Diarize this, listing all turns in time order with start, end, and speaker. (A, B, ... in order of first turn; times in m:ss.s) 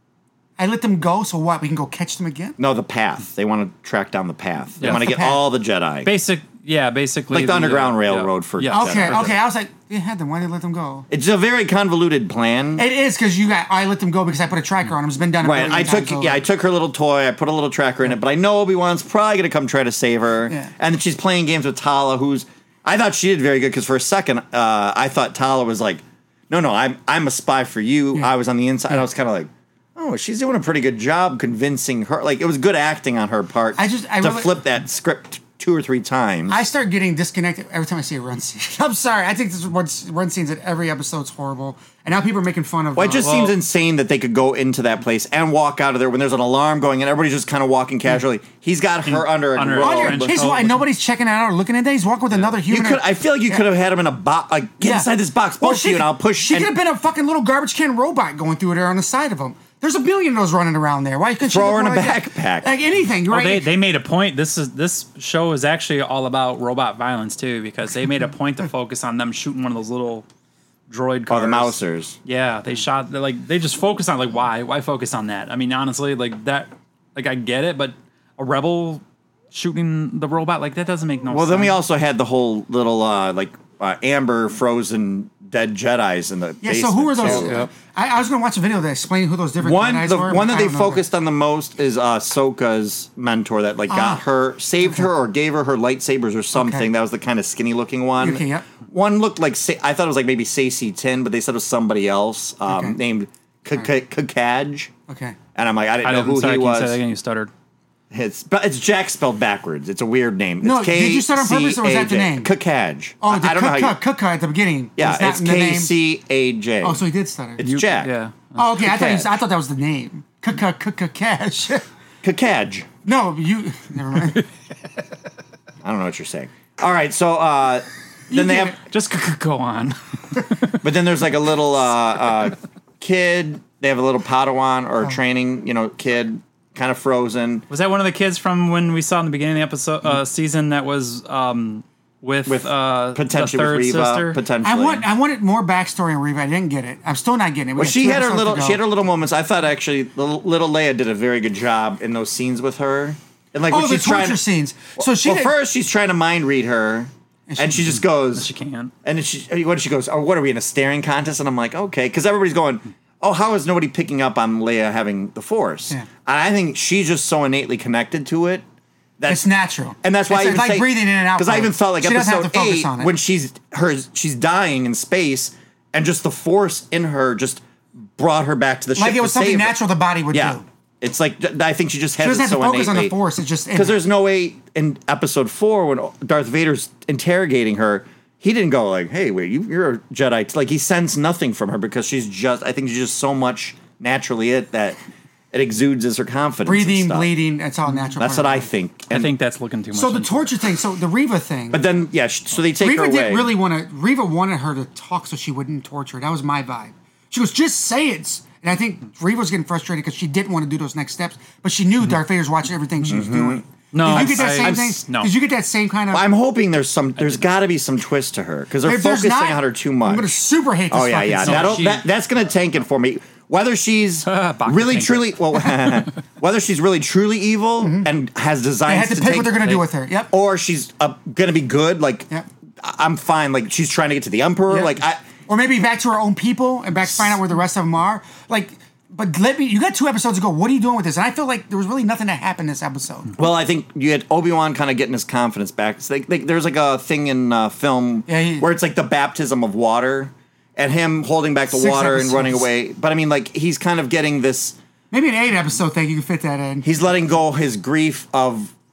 0:00.6-0:02.6 A
0:02.6-0:06.1 B
0:04.8-0:05.1 C
0:04.8-0:05.4 A
0:06.0-0:09.3 C
0:07.3-0:09.4 B
0:08.7-0:11.1 A
0:11.1-0:12.8 B
0:12.8-0:16.4 A
0:15.4-0:36.6 B
0:33.8-0:34.6 A
0:36.5-0:43.3 A
0:42.9-0:50.4 B
0:43.2-0:43.5 C
0:49.0-0:50.8 C
0:49.8-0:53.6 A
0:52.6-0:56.7 B
0:54.8-1:03.7 A
1:01.4-1:02.7 B
1:03.3-1:10.2 C
1:10.9-1:21.8 C
1:11.3-1:12.2 B
1:21.3-1:27.6 B
1:26.6-1:31.0 A
1:27.2-1:27.7 C
1:29.6-1:44.9 B
1:33.9-1:34.2 A
1:36.5-1:36.9 A
1:38.2-1:38.7 A
1:42.7-1:43.0 A
1:45.1-1:45.4 A
1:45.5-1:47.0 B
1:46.0-1:47.5 C
1:48.1-1:54.0 B
1:50.6-1:52.5 A
1:53.2-1:55.9 A
1:55.0-1:57.0 B
1:56.8-1:57.6 A
1:57.6-1:58.1 B
1:57.6-1:58.8 C
1:58.6-2:01.8 A
1:58.8-1:59.3 B
2:02.2-2:02.9 B
2:03.0-2:04.5 A
2:05.8-2:08.8 B
2:08.3-2:08.8 A
2:08.8-2:10.8 C
2:10.8-2:17.6 B
2:17.7-2:24.4 C
2:22.4-2:25.0 B
2:24.6-2:28.8 A
2:27.8-2:34.4 B
2:33.7-2:35.5 A
2:35.0-2:38.5 B
2:37.5-2:38.0 A
2:38.3-2:38.9 C
2:39.0-2:48.6 B
2:49.2-2:49.4 B
2:49.3-2:53.1 A
2:50.0-2:59.7 B
2:59.0-3:00.6 A
3:00.3-3:03.1 B
3:02.2-3:04.0 A
3:03.7-3:15.0 B
3:15.5-3:17.3 B
3:16.6-3:18.7 A
3:18.2-3:19.3 B
3:19.1-3:20.5 C
3:19.9-3:21.8 A
3:21.7-3:23.5 B
3:22.8-3:36.2 A
3:33.1-3:35.0 B
3:33.9-3:35.3 C
3:36.1-3:40.3 B
3:38.8-3:41.8 A
3:40.9-3:49.8 B
3:41.4-3:42.0 C
3:44.2-3:46.0 C
3:47.8-3:48.1 A
3:48.8-3:50.3 A
3:50.3-3:52.3 B
3:52.8-3:55.2 B
3:54.7-4:03.3 A
4:03.4-4:14.8 B
4:08.3-4:08.7 A
4:11.7-4:12.7 A
4:15.1-4:16.9 A
4:16.8-4:18.7 B